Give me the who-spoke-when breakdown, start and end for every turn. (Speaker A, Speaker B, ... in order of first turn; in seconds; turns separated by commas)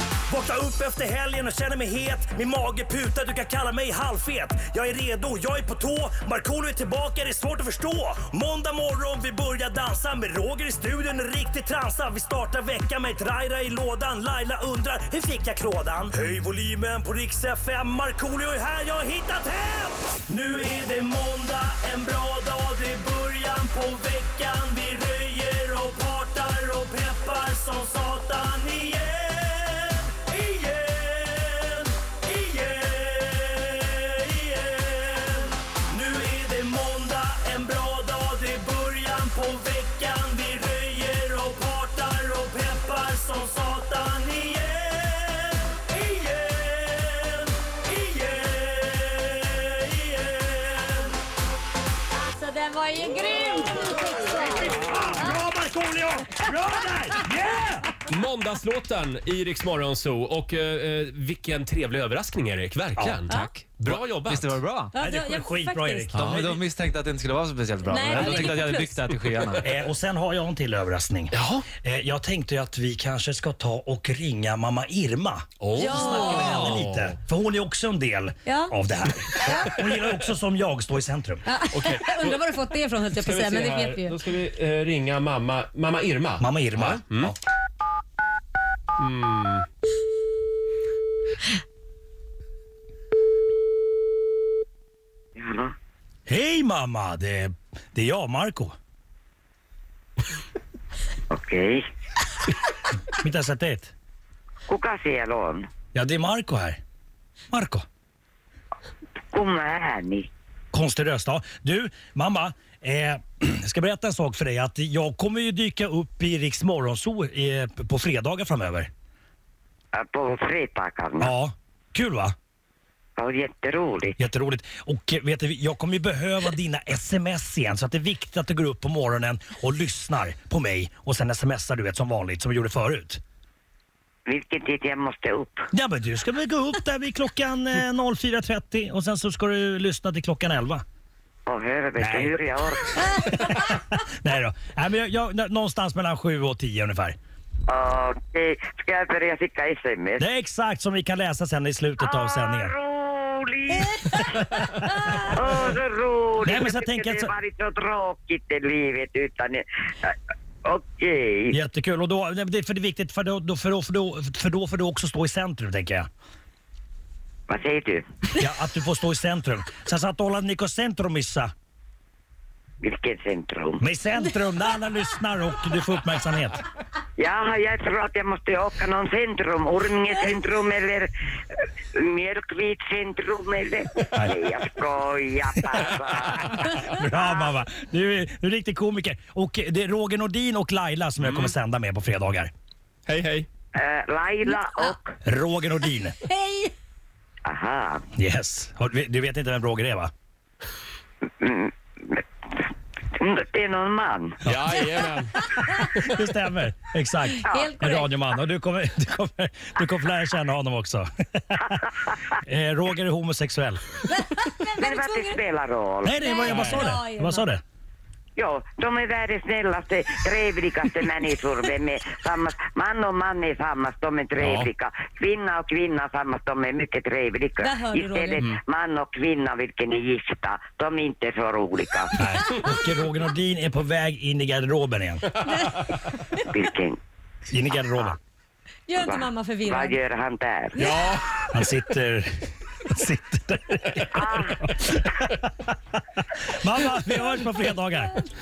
Speaker A: 0.3-51.1, Speaker B: 52.1-55.4, Speaker A: 54.4-57.9, Speaker C: 58.0-64.6, Speaker A: 63.0-63.2, Speaker D: 63.3-64.9, Speaker B: 64.9-66.1, Speaker A: 65.0-66.6, Speaker D: 66.1-69.7, Speaker C: 66.2-66.5, Speaker B: 67.8-69.2, Speaker A: 69.6-81.4, Speaker C: 71.3-71.7, Speaker C: 75.6-77.2, Speaker B: 75.8-76.8, Speaker B: 78.5-78.8, Speaker B: 79.3-79.8, Speaker B: 81.4-84.2, Speaker C: 81.7-82.5, Speaker C: 83.2-87.3, Speaker A: 86.4-87.4, Speaker C: 89.0-89.7, Speaker E: 95.4-95.7, Speaker A: 96.3-98.7, Speaker E: 101.3-101.8, Speaker A: 103.1-103.9, Speaker E: 104.7-105.7, Speaker A: 105.9-106.8, Speaker A: 107.5-107.8, Speaker E: 109.3-110.3, Speaker A: 110.7-118.9, Speaker E: 119.9-121.3, Speaker A: 121.2-122.3, Speaker E: 123.2-124.2, Speaker A: 124.2-133.2, Speaker E: 134.2-135.7, Speaker A: 135.7-140.8, Speaker E: 141.5-143.3, Speaker A: 142.0-142.4, Speaker A: 143.0-147.2, Speaker E: 147.7-150.2, Speaker A: 150.2-152.7, Speaker E: 152.0-154.6, Speaker B: 154.2-155.3, Speaker A: 154.4-155.3, Speaker E: 155.2-161.5, Speaker A: 156.4-157.3, Speaker A: 161.5-166.1, Speaker E: 167.5-168.0, Speaker A: 168.3-171.5, Speaker E: 172.8-173.8, Speaker A: 173.8-176.6, Speaker B: 174.2-174.6, Speaker E: 177.2-187.5, Speaker A: 184.1-184.4, Speaker A: 185.7-192.5, Speaker C: 191.2-191.5, Speaker C: 193.1-193.5, Speaker E: 193.7-195.1, Speaker B: 194.5-194.9, Speaker A: 195.2-196.2, Speaker B: 196.2-196.7, Speaker E: 197.4-198.0, Speaker A: 198.2-200.1, Speaker E: 201.4-202.2, Speaker E: 203.1-204.4, Speaker C: 204.4-205.9, Speaker A: 204.4-204.8, Speaker B: 205.4-205.8, Speaker A: 205.8-211.8, Speaker B: 207.3-208.1, Speaker A: 212.4-213.9, Speaker B: 214.0-215.4, Speaker E: 214.8-216.2, Speaker A: 216.0-217.6, Speaker B: 216.2-217.5, Speaker C: 216.4-216.9, Speaker E: 218.4-232.1, Speaker C: 224.4-224.7, Speaker B: 227.6-228.4, Speaker A: 232.2-235.2, Speaker B: 232.2-232.9, Speaker B: 235.4-236.4, Speaker E: 236.5-237.0, Speaker A: 237.5-238.2, Speaker B: 238.9-240.0, Speaker E: 239.0-240.7, Speaker B: 240.7-241.2, Speaker C: 240.8-241.5, Speaker A: 241.5-248.2, Speaker E: 244.1-245.0, Speaker B: 246.9-248.3